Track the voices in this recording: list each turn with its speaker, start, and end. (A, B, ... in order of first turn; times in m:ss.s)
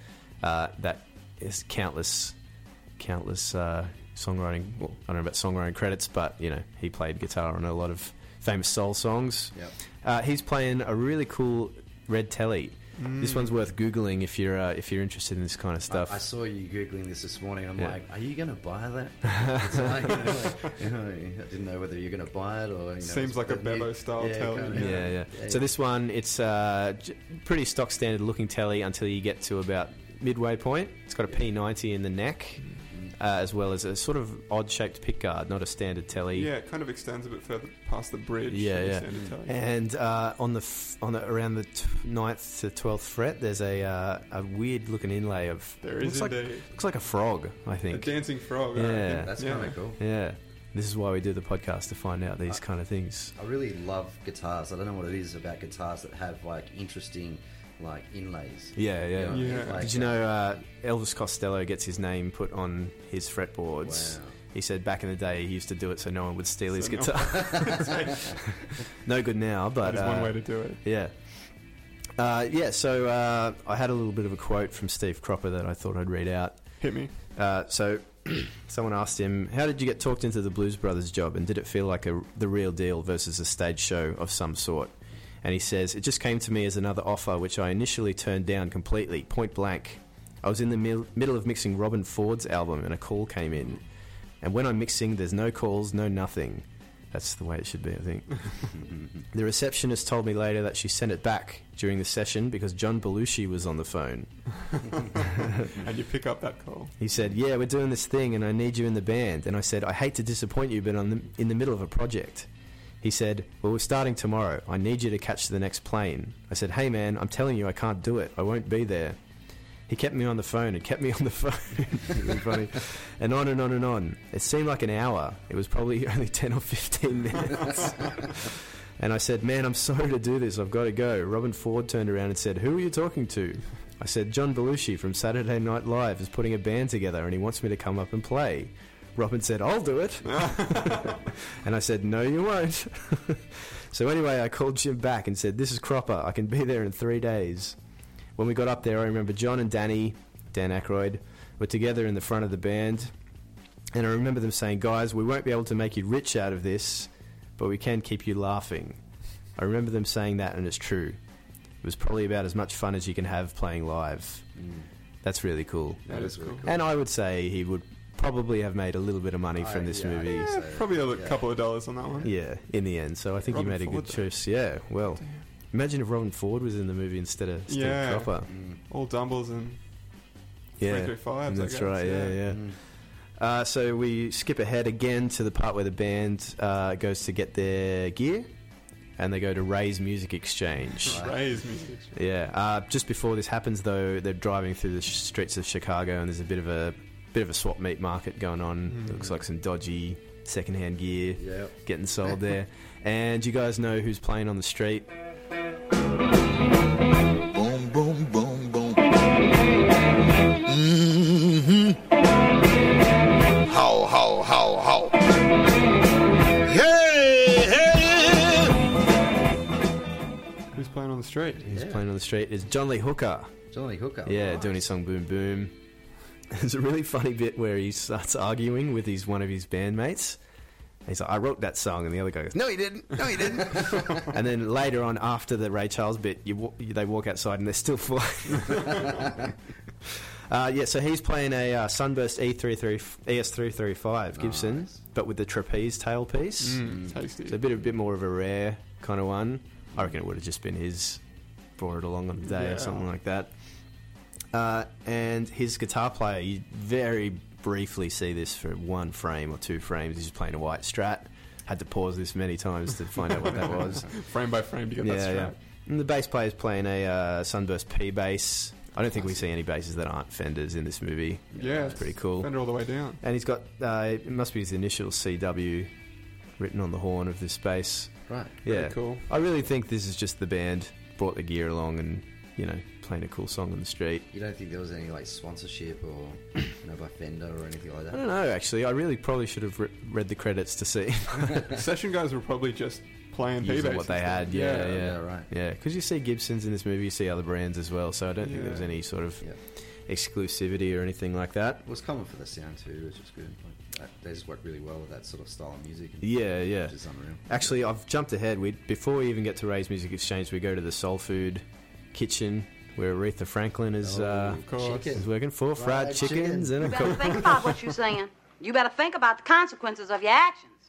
0:00.4-0:02.4 A
0:03.0-0:16.2 A
0:13.0-0:13.5 B
0:15.9-0:25.7 C
0:19.5-0:20.3 A
0:23.0-0:25.1 B
0:24.7-0:36.5 A
0:32.9-0:33.2 C
0:36.3-0:39.6 B
0:38.5-0:48.2 A
0:45.8-0:46.7 B
0:47.9-0:49.8 B
0:48.7-0:53.3 A
0:49.2-0:50.0 C
0:53.4-1:00.2 C
0:58.7-1:08.4 A
0:59.3-0:59.8 B
1:03.8-1:04.3 C
1:06.7-1:08.4 B
1:09.0-1:11.1 A
1:09.8-1:10.8 B
1:12.2-1:16.6 A
1:16.8-1:17.1 B
1:17.3-1:33.8 A
1:34.4-1:38.7 A
1:39.3-1:44.3 A
1:44.9-1:46.9 B
1:47.0-1:52.5 A
1:53.0-1:59.2 A
1:59.9-2:27.8 A
2:20.4-2:21.1 B
2:28.4-2:33.1 A
2:33.9-2:39.0 A
2:39.6-2:41.2 A
2:41.8-2:44.5 A
2:44.6-2:44.9 C
2:45.2-2:46.0 A
2:46.0-2:46.8 C
2:46.1-2:46.6 B
2:46.6-2:50.5 A
2:49.6-2:51.4 C
2:50.3-2:52.3 B
2:52.2-2:58.5 A
2:53.5-2:54.3 B
2:55.1-2:55.4 B
2:57.7-2:59.8 B
2:58.5-2:58.8 C
3:00.8-3:02.4 B
3:00.8-3:02.7 A
3:02.5-3:02.8 C
3:03.4-3:08.5 A
3:09.2-3:11.2 A
3:11.0-3:12.1 B
3:11.1-3:11.4 C
3:12.1-3:25.1 A
3:18.8-3:19.2 B
3:21.4-3:21.8 C
3:27.5-3:29.0 D
3:30.7-3:31.8 D
3:33.6-3:35.1 D
3:36.7-3:38.7 D
3:40.7-3:41.7 B
3:41.6-3:43.5 A
3:41.7-3:42.0 C
3:43.7-3:44.9 C
3:44.2-3:45.7 A
3:46.5-3:50.4 A
3:51.0-3:59.5 A
4:00.0-4:11.2 A
4:04.4-4:05.0 C
4:06.6-4:07.6 B
4:11.8-4:13.5 A
4:12.5-4:13.1 B
4:14.5-4:24.1 A
4:23.7-4:25.5 B
4:25.0-4:32.6 A
4:31.5-4:32.0 C
4:31.6-4:33.2 B
4:33.2-4:35.9 A
4:36.6-4:44.2 A
4:38.3-4:38.6 C
4:38.6-4:39.2 B
4:44.3-4:48.2 C
4:48.1-4:51.7 A
4:51.7-4:55.0 B
4:53.6-4:59.5 A
4:54.8-4:55.5 C
4:58.4-4:58.9 B
5:00.1-5:01.8 A
5:01.8-5:07.7 C
5:06.2-5:17.4 A
5:14.0-5:16.8 C
5:14.6-5:15.2 B
5:16.8-5:20.7 E